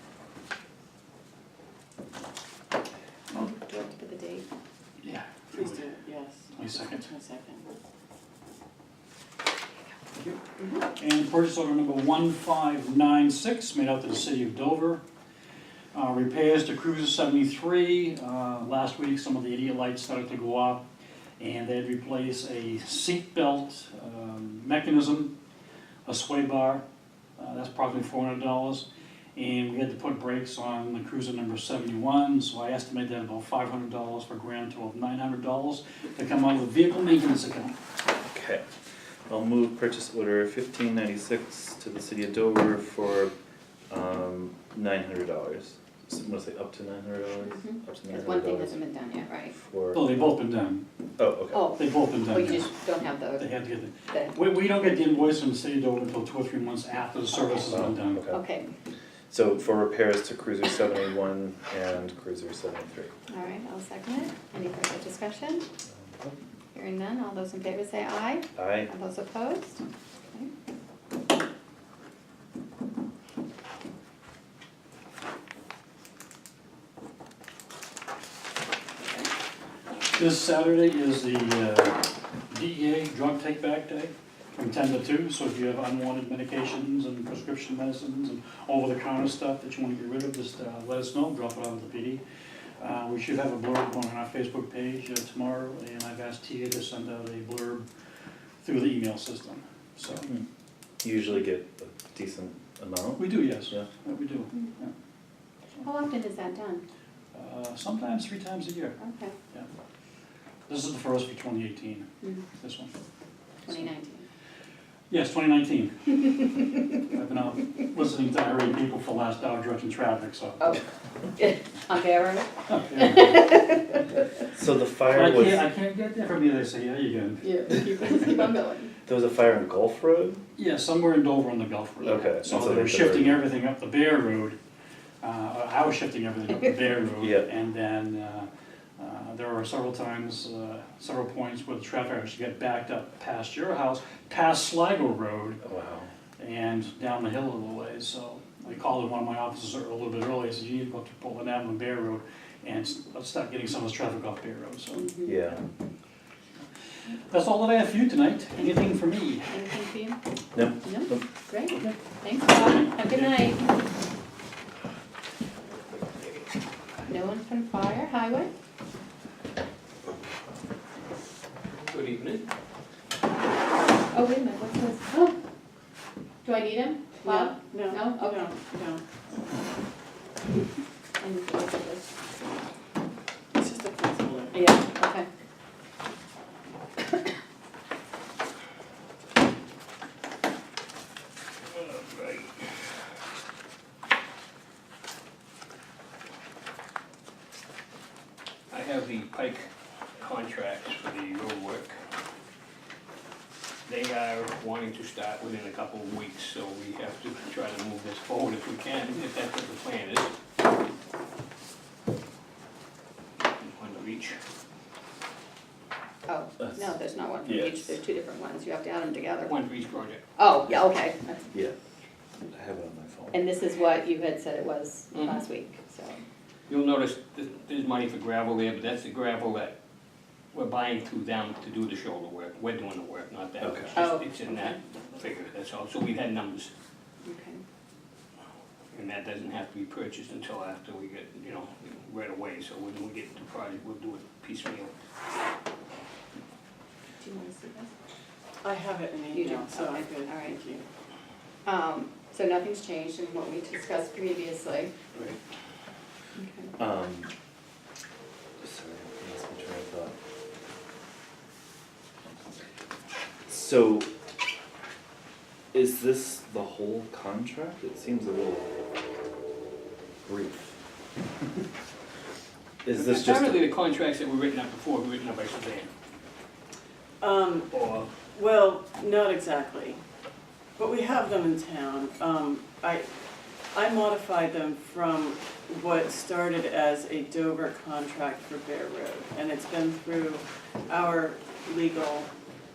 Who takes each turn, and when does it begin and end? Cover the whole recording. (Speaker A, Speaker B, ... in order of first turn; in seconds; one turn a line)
Speaker A: 3.3-4.4
Speaker B: 5.0-5.8
Speaker C: 5.5-7.7
Speaker B: 6.5-7.0
Speaker A: 10.6-10.9
Speaker B: 11.0-15.0
Speaker B: 15.9-20.8
Speaker B: 21.4-25.3
Speaker B: 26.1-26.8
Speaker B: 27.4-37.8
Speaker D: 38.2-38.6
Speaker D: 39.3-43.3
Speaker D: 43.9-48.8
Speaker A: 47.4-49.5
Speaker D: 49.5-50.1
Speaker B: 49.9-50.8
Speaker D: 51.2-51.7
Speaker A: 51.5-53.5
Speaker B: 51.7-52.7
Speaker B: 53.4-58.2
Speaker A: 54.1-54.4
Speaker D: 57.7-58.4
Speaker A: 58.3-58.7
Speaker D: 59.3-63.1
Speaker A: 63.3-65.7
Speaker D: 66.0-66.3
Speaker A: 66.7-70.5
Speaker D: 68.5-68.9
Speaker A: 79.0-79.3
Speaker B: 80.1-92.2
Speaker B: 92.8-97.8
Speaker B: 98.6-100.3
Speaker D: 101.0-103.9
Speaker B: 103.2-104.9
Speaker A: 105.8-106.8
Speaker B: 107.3-109.0
Speaker A: 109.0-109.3
Speaker B: 110.7-112.9
Speaker A: 113.7-114.2
Speaker B: 115.1-120.8
Speaker A: 121.3-124.0
Speaker B: 122.7-123.7
Speaker D: 124.5-125.6
Speaker B: 125.1-127.6
Speaker A: 127.4-128.9
Speaker D: 129.1-130.4
Speaker B: 130.6-134.6
Speaker D: 132.0-133.4
Speaker B: 135.2-145.6
Speaker D: 137.2-137.5
Speaker D: 145.6-146.1
Speaker B: 146.4-155.2
Speaker A: 155.0-155.4
Speaker D: 155.2-155.6
Speaker B: 157.3-159.6
Speaker A: 159.5-160.2
Speaker D: 160.5-161.2
Speaker A: 160.8-163.6
Speaker B: 162.6-163.3
Speaker A: 167.1-168.5
Speaker E: 171.8-172.4
Speaker A: 174.1-175.3
Speaker A: 176.4-178.5
Speaker C: 177.2-179.0
Speaker A: 181.2-182.1
Speaker C: 183.5-184.6
Speaker A: 184.5-185.3
Speaker E: 191.6-192.8
Speaker E: 198.7-201.9
Speaker E: 203.8-210.3
Speaker E: 213.6-214.4
Speaker A: 216.2-219.5
Speaker D: 217.4-217.8
Speaker E: 219.4-220.2
Speaker A: 220.3-221.5
Speaker D: 222.5-223.4
Speaker A: 223.3-226.2
Speaker E: 226.7-229.7
Speaker E: 230.5-236.7
Speaker D: 233.6-234.0
Speaker A: 233.9-234.8
Speaker A: 237.2-237.6
Speaker E: 238.9-244.9
Speaker A: 247.2-247.9
Speaker C: 248.6-250.8
Speaker A: 249.3-250.6
Speaker A: 251.7-254.9
Speaker E: 255.1-255.4
Speaker A: 256.4-256.7
Speaker D: 256.8-257.3
Speaker D: 258.6-260.1
Speaker D: 263.5-264.1
Speaker D: 265.7-268.7
Speaker D: 270.2-270.8
Speaker D: 272.8-273.6
Speaker E: 272.9-275.9
Speaker C: 277.2-277.7
Speaker E: 277.7-278.1
Speaker C: 278.3-280.0
Speaker C: 280.8-283.1
Speaker C: 283.7-292.3